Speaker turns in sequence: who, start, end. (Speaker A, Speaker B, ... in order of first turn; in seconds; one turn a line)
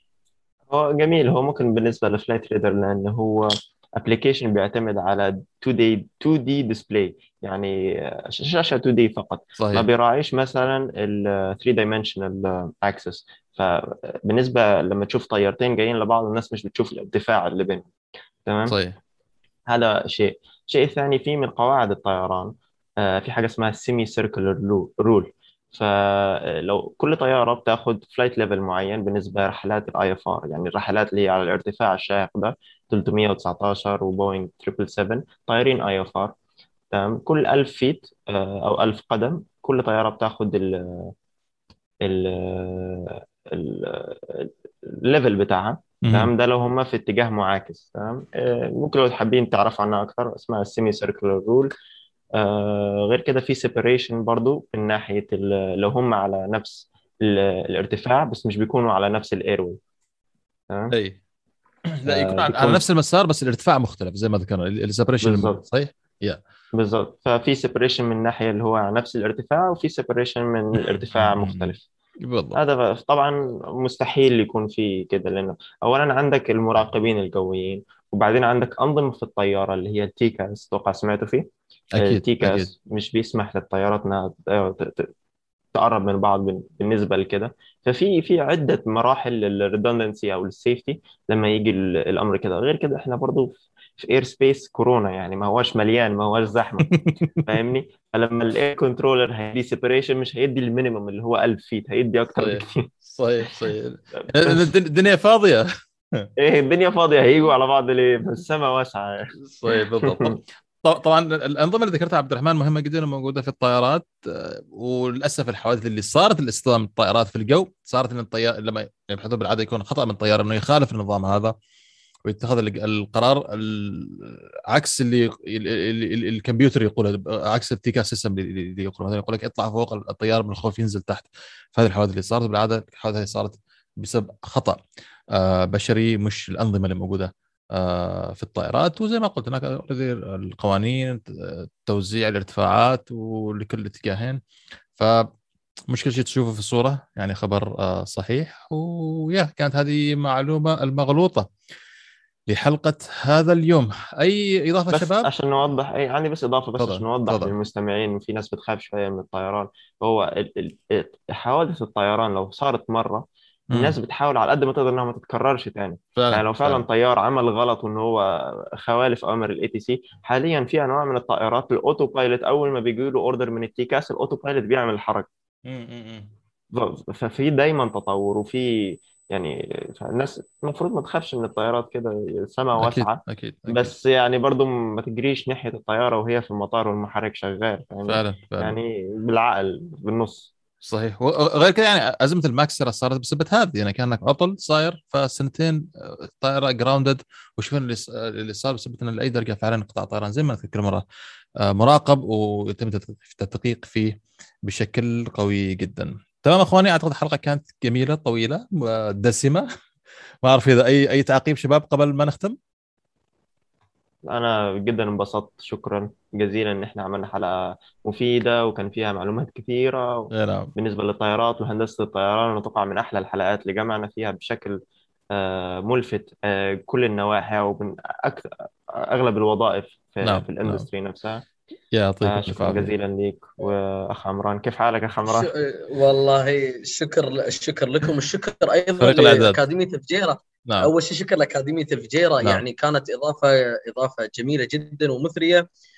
Speaker A: 0.7-17.8
Speaker B: 9.6-9.8
Speaker A: 18.4-18.8
Speaker B: 18.7-19.0
Speaker A: 19.7-36.3
Speaker A: 36.9-41.1
Speaker A: 42.0-51.7
Speaker B: 46.0-46.3
Speaker A: 52.4-59.8
Speaker B: 60.9-61.2
Speaker B: 62.0-66.4
Speaker A: 62.0-62.8
Speaker A: 65.2-65.6
Speaker A: 66.7-71.8
Speaker B: 70.8-72.6
Speaker A: 72.5-85.1
Speaker B: 81.9-82.7
Speaker A: 85.7-102.9
Speaker B: 102.4-106.3
Speaker A: 104.2-104.6
Speaker A: 106.4-110.4
Speaker B: 109.4-121.5
Speaker B: 122.2-134.8
Speaker B: 135.3-144.4
Speaker B: 145.0-145.3
Speaker B: 145.9-151.5
Speaker B: 152.5-155.3
Speaker A: 154.9-175.3
Speaker B: 156.8-157.5
Speaker B: 163.7-164.0
Speaker B: 166.2-166.8
Speaker B: 175.7-176.3
Speaker A: 176.7-190.5
Speaker B: 182.8-183.9
Speaker B: 188.1-188.8
Speaker B: 190.8-201.0
Speaker B: 201.6-209.7
Speaker B: 210.4-212.6
Speaker A: 214.3-224.8
Speaker B: 220.3-220.7
Speaker A: 225.3-231.4
Speaker B: 230.2-230.9
Speaker B: 231.9-232.9
Speaker A: 232.2-235.5
Speaker C: 235.3-245.7
Speaker B: 239.0-239.6